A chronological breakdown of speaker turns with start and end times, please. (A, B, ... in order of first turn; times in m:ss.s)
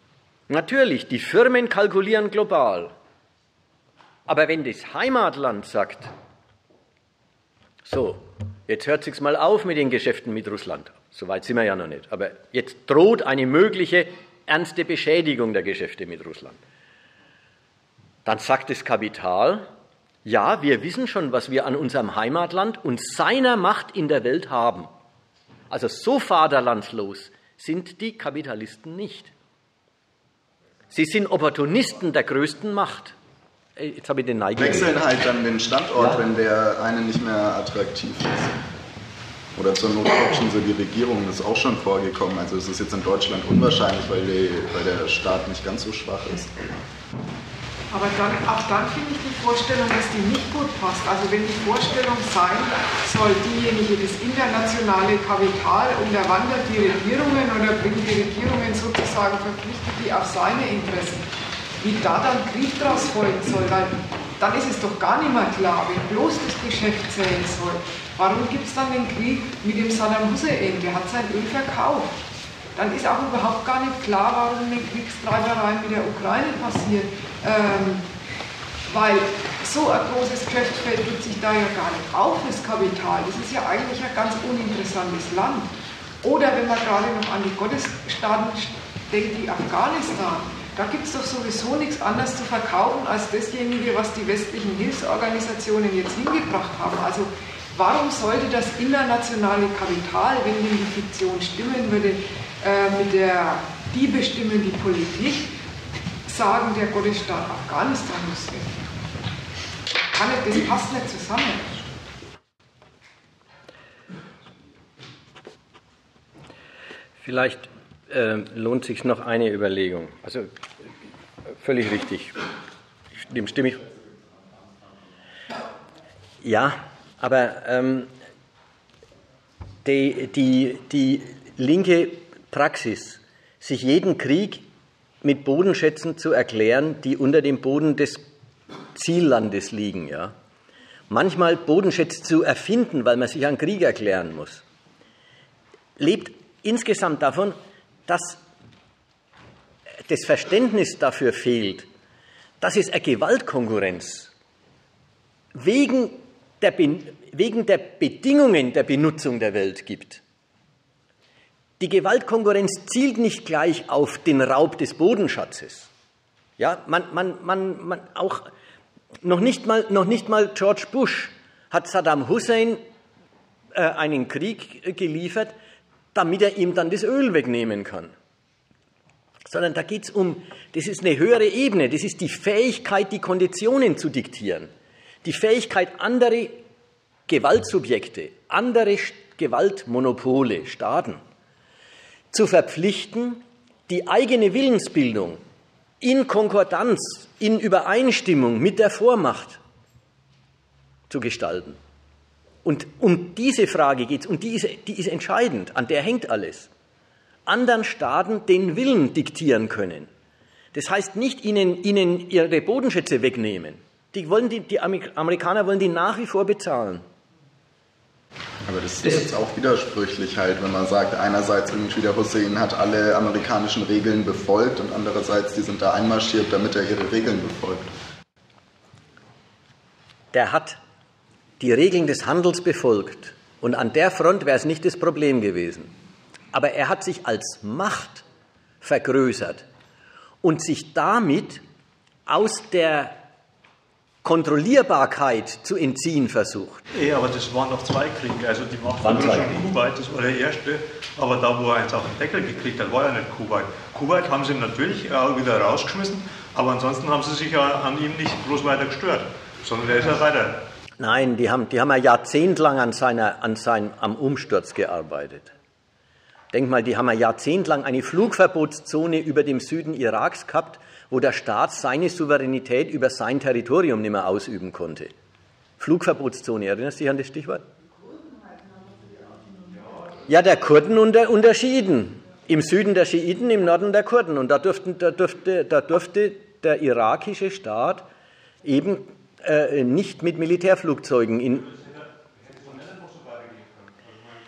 0:00.5-0:02.9 A
0:04.3-0:06.1 A
0:07.8-0:16.6 A
0:18.2-0:19.7 A
0:20.2-0:24.9 A
0:25.7-0:29.3 A
0:30.9-0:33.1 A
0:33.8-0:35.0 A
0:34.6-0:38.5 B
0:36.0-0:36.2 A
0:39.5-0:46.5 B
0:47.9-1:01.2 C
1:01.8-1:12.1 C
1:12.7-1:18.1 C
1:18.9-1:25.7 C
1:26.2-1:45.5 C
1:46.2-1:48.8 C
1:50.0-1:51.8 C
1:57.2-2:00.5 A
2:01.6-2:02.4 A
2:03.2-2:03.8 A
2:06.4-2:08.1 A
2:09.8-2:14.6 A
2:15.2-2:18.3 A
2:18.9-2:20.3 A
2:21.1-2:24.6 A
2:26.0-2:27.6 A
2:28.1-2:28.4 A
2:30.1-2:31.9 A
2:32.6-2:34.3 A
2:35.5-2:40.2 A
2:41.8-2:45.9 A
2:46.6-2:48.5 A
2:49.2-2:52.8 A
2:53.7-2:55.5 A
2:56.1-2:58.1 A
2:59.4-3:04.7 A
3:05.2-3:06.6 A
3:07.3-3:11.2 A
3:12.3-3:15.4 A
3:16.0-3:19.6 A
3:21.1-3:21.8 A
3:22.6-3:26.7 A
3:27.4-3:30.1 A
3:30.7-3:37.0 A
3:38.6-3:47.9 B
3:50.3-3:50.8 A
3:51.6-3:55.9 A
3:56.5-3:58.2 A
3:58.8-3:59.6 A
4:00.4-4:01.6 A
4:02.2-4:03.2 A
4:04.2-4:06.8 A
4:06.9-4:20.6 D
4:09.0-4:09.6 A
4:21.0-4:25.5 A
4:26.5-4:35.1 A
4:35.8-4:37.6 A
4:40.3-4:48.0 A
4:48.6-4:51.7 A
4:52.6-4:53.6 D